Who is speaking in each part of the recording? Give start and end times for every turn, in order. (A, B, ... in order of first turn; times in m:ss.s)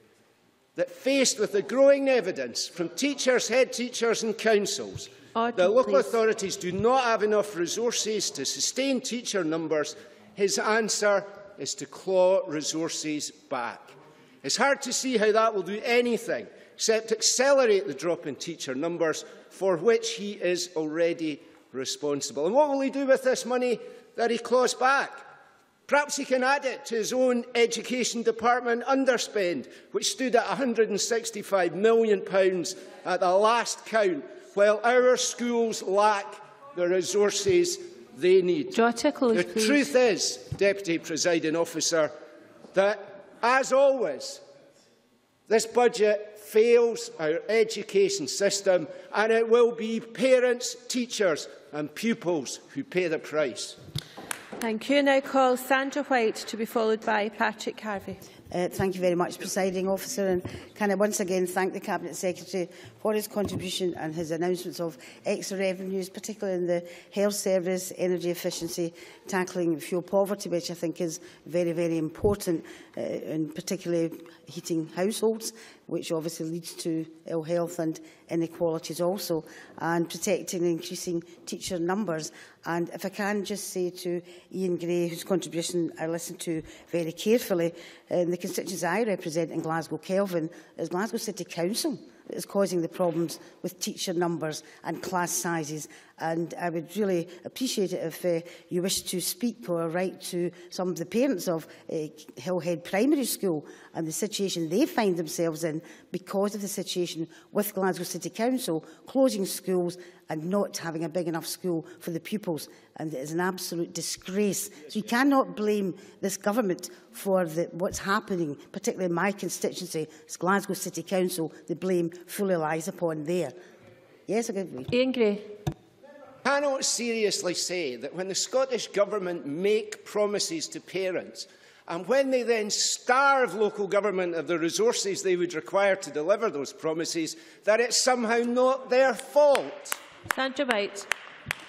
0:00.8-0:25.2 A
0:05.3-0:06.2 B
0:25.9-0:38.8 A
0:38.7-0:40.0 B
0:39.3-0:42.1 A
0:42.7-0:44.4 A
0:45.5-0:53.8 A
0:54.6-0:58.2 B
0:58.5-2:03.5 C
2:04.3-2:04.9 C
2:04.9-2:05.5 B
2:06.4-2:20.0 A
2:20.3-2:21.1 B